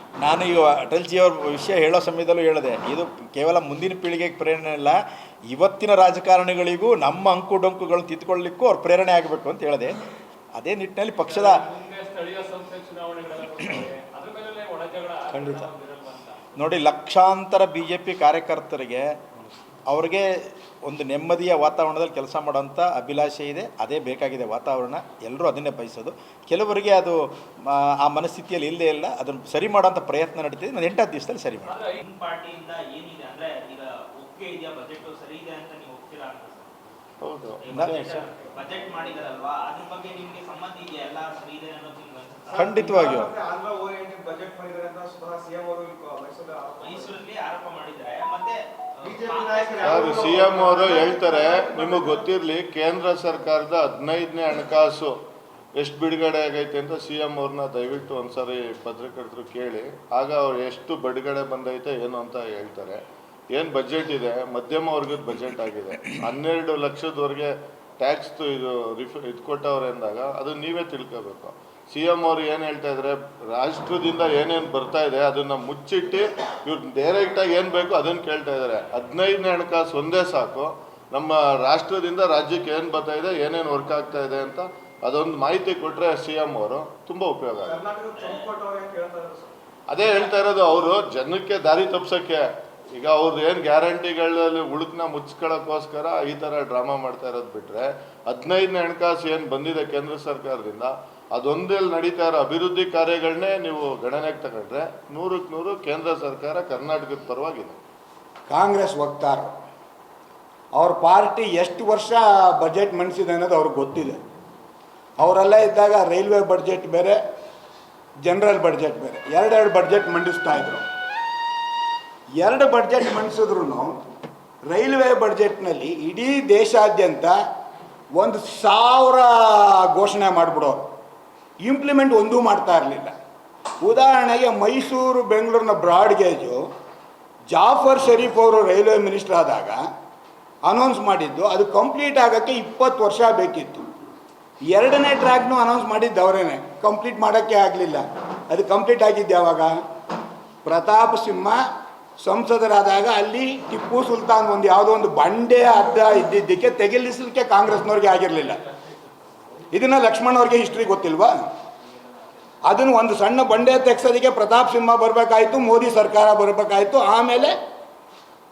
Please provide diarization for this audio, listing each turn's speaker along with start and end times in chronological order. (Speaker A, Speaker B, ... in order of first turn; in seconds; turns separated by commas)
Speaker A: 0.2-10.0, Speaker A: 10.6-11.6, Speaker B: 11.2-16.4, Speaker A: 15.3-15.7, Speaker A: 16.6-19.2, Speaker A: 19.9-31.8, Speaker B: 31.7-32.0, Speaker C: 32.0-36.7, Speaker D: 37.2-37.6, Speaker C: 37.6-43.3, Speaker A: 37.7-38.0, Speaker A: 42.6-43.4, Speaker E: 43.3-47.1, Speaker C: 46.8-50.2, Speaker E: 49.1-52.3, Speaker D: 49.8-55.1, Speaker D: 55.8-63.0, Speaker D: 63.5-67.5, Speaker D: 68.0-87.8, Speaker E: 87.7-89.5, Speaker C: 88.2-88.5, Speaker D: 89.9-92.4, Speaker D: 93.0-107.8, Speaker F: 108.5-109.5, Speaker F: 110.8-114.2, Speaker F: 115.2-117.2, Speaker F: 118.2-120.8, Speaker F: 122.4-123.9, Speaker F: 124.7-127.3, Speaker F: 128.2-130.8, Speaker F: 131.6-133.1, Speaker F: 133.8-136.6, Speaker F: 137.5-139.8, Speaker F: 140.7-143.9, Speaker F: 144.7-149.7, Speaker F: 150.6-151.6, Speaker F: 152.2-158.6, Speaker F: 159.7-161.4, Speaker F: 162.7-167.6